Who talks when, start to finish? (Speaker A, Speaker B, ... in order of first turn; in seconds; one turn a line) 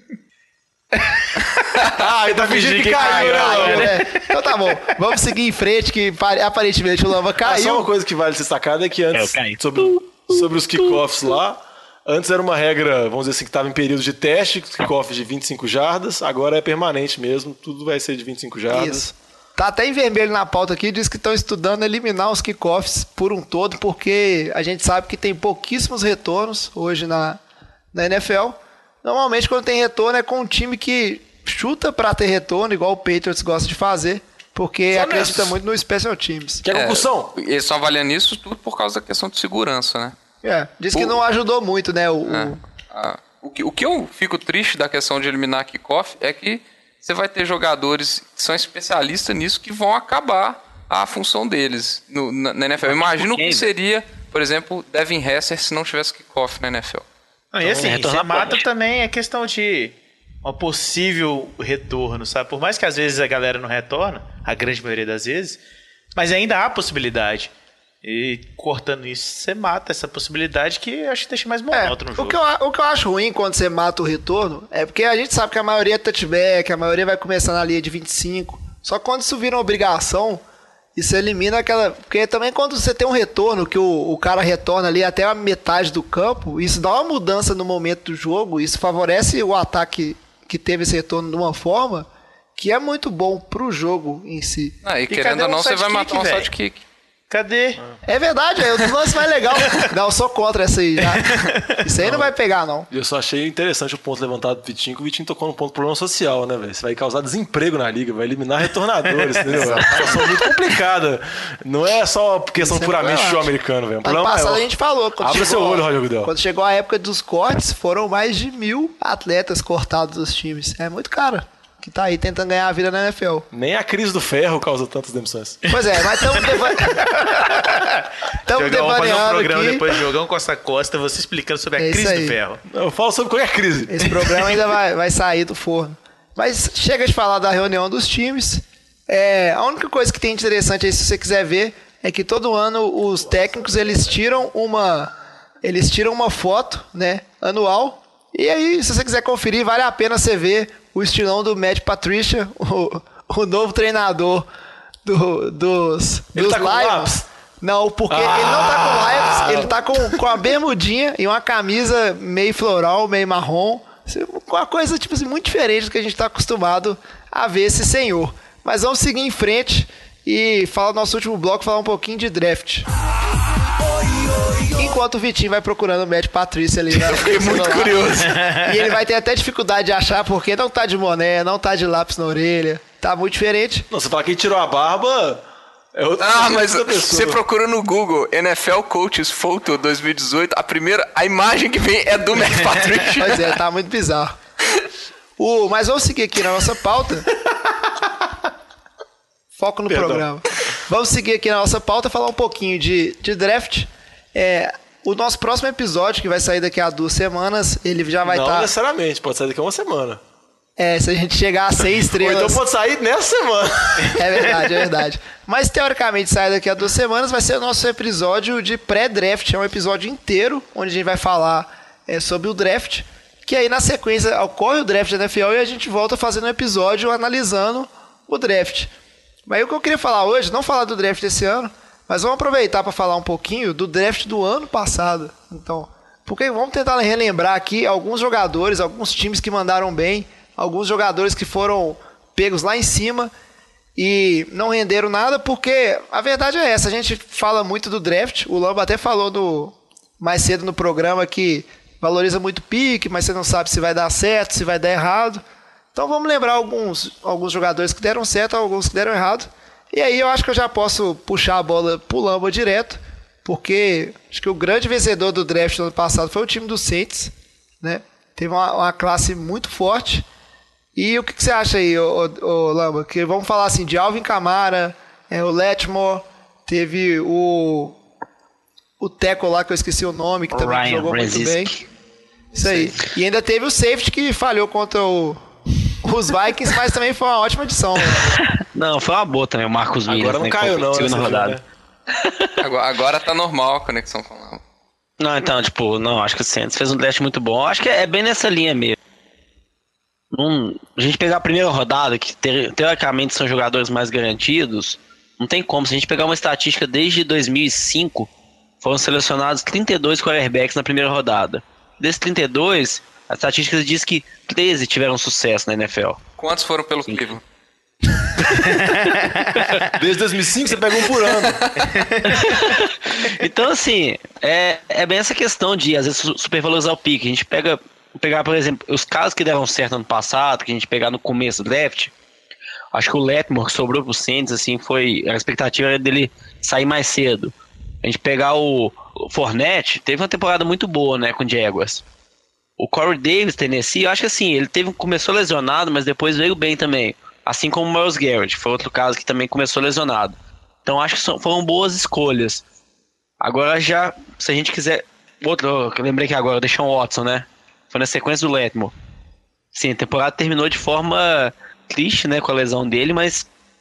Speaker A: 0.9-4.5
Speaker B: 1.9-3.9
Speaker C: 2.9-7.9
Speaker B: 7.4-19.1
Speaker D: 9.1-11.0
Speaker C: 18.7-27.4
Speaker C: 27.9-36.6
Speaker B: 34.9-35.5
Speaker B: 36.6-37.3
Speaker E: 36.7-40.1
Speaker C: 40.4-42.6
Speaker E: 40.9-41.2
Speaker E: 42.3-57.0
Speaker D: 52.9-53.7
Speaker A: 57.5-65.6
Speaker D: 57.6-58.6
Speaker A: 66.1-67.5
Speaker A: 68.0-72.4
Speaker C: 71.7-80.4
Speaker C: 81.0-94.8
Speaker E: 94.8-96.8
Speaker A: 95.1-96.5
Speaker A: 97.3-97.8
Speaker C: 98.0-102.9
Speaker A: 101.1-101.6
Speaker B: 102.9-114.6
Speaker E: 109.5-110.2
Speaker C: 112.6-113.5
Speaker C: 114.0-123.5
Speaker B: 115.2-116.3
Speaker B: 123.5-125.6
Speaker A: 125.6-132.6
Speaker C: 125.7-127.4
Speaker C: 128.4-129.9
Speaker C: 131.8-132.4
Speaker B: 132.7-134.0
Speaker C: 133.9-154.5
Speaker C: 155.1-172.9
Speaker B: 156.3-157.2
Speaker B: 158.1-159.7
Speaker C: 174.7-178.1
Speaker E: 176.9-178.4
Speaker A: 178.3-178.6
Speaker C: 178.6-183.9
Speaker B: 183.9-185.4
Speaker B: 185.9-187.4
Speaker E: 186.2-193.6
Speaker C: 193.2-194.3
Speaker C: 195.4-197.3
Speaker C: 199.6-208.7
Speaker B: 199.9-200.3
Speaker B: 208.2-210.2
Speaker C: 210.8-212.6
Speaker B: 212.2-214.5
Speaker C: 214.1-228.9
Speaker C: 229.5-243.3
Speaker C: 243.9-255.4
Speaker C: 255.9-270.3
Speaker C: 270.9-277.9
Speaker C: 279.0-281.7
Speaker D: 280.5-281.8
Speaker C: 282.6-285.4
Speaker C: 286.0-288.3
Speaker D: 288.1-291.6
Speaker B: 290.1-291.6
Speaker D: 292.1-292.6
Speaker E: 292.6-294.6
Speaker D: 295.2-299.0
Speaker D: 300.3-308.3
Speaker D: 308.8-316.2
Speaker E: 316.4-317.4
Speaker D: 318.5-319.2
Speaker A: 318.7-319.6
Speaker B: 319.8-321.6
Speaker E: 321.4-322.1
Speaker A: 322.0-322.4
Speaker D: 322.3-332.1
Speaker D: 332.9-342.0
Speaker D: 342.8-352.6
Speaker D: 353.4-358.9
Speaker D: 359.7-363.5